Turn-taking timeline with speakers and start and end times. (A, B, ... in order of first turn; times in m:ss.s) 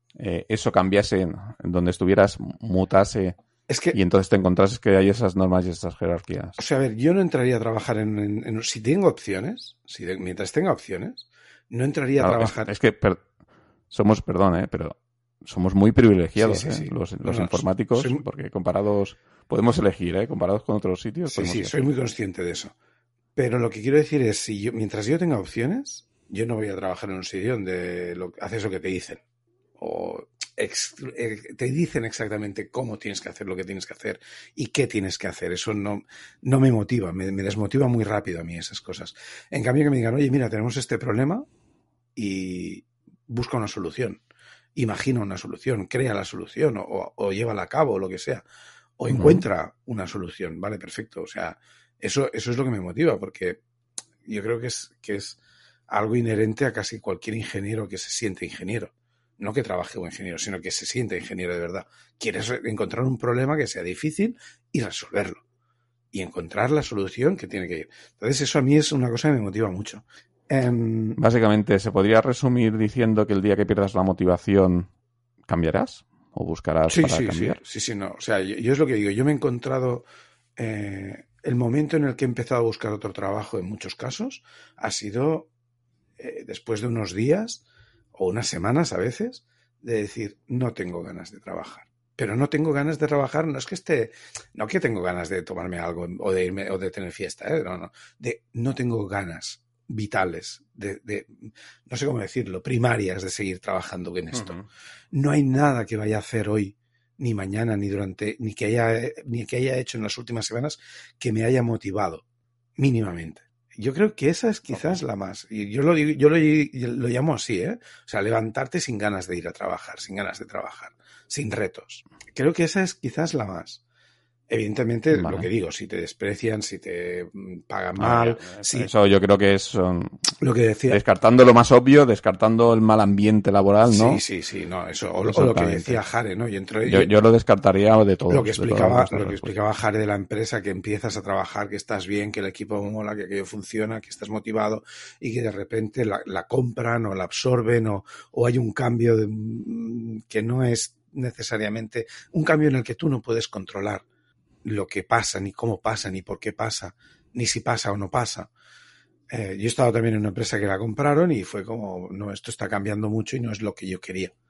0:00.2-0:03.4 A
0:03.7-0:04.0 B
0:03.9-0:06.6 A
0:06.6-0:12.7 B
0:12.2-0:13.2 A
0:13.9-0:21.9 A
0:16.4-0:18.2 B
0:21.3-0:22.7 B
0:23.4-0:29.2 B
0:29.8-0:41.5 B
0:42.2-0:44.2 B
0:44.8-0:48.4 B
0:49.0-0:53.6 B
0:49.1-0:49.4 A
0:54.2-0:55.4 B
0:55.9-1:05.4 B
1:06.1-1:11.2 B
1:11.2-1:14.9 A
1:15.5-1:17.6 A
1:16.9-1:20.0 B
1:20.6-1:25.5 B
1:26.2-1:27.6 B
1:28.1-1:44.5 B
1:44.3-1:44.7 A
1:45.1-1:52.2 B
1:52.8-2:03.8 B
1:54.7-1:55.0 A
2:04.5-2:08.9 B
2:05.1-2:05.5 A
2:08.0-2:10.3 A
2:10.4-2:11.0 B
2:10.9-2:14.2 A
2:13.9-2:17.1 B
2:15.3-2:16.0 A
2:16.8-2:19.5 A
2:18.3-2:34.0 B
2:34.6-2:38.5 B
2:39.3-2:44.3 B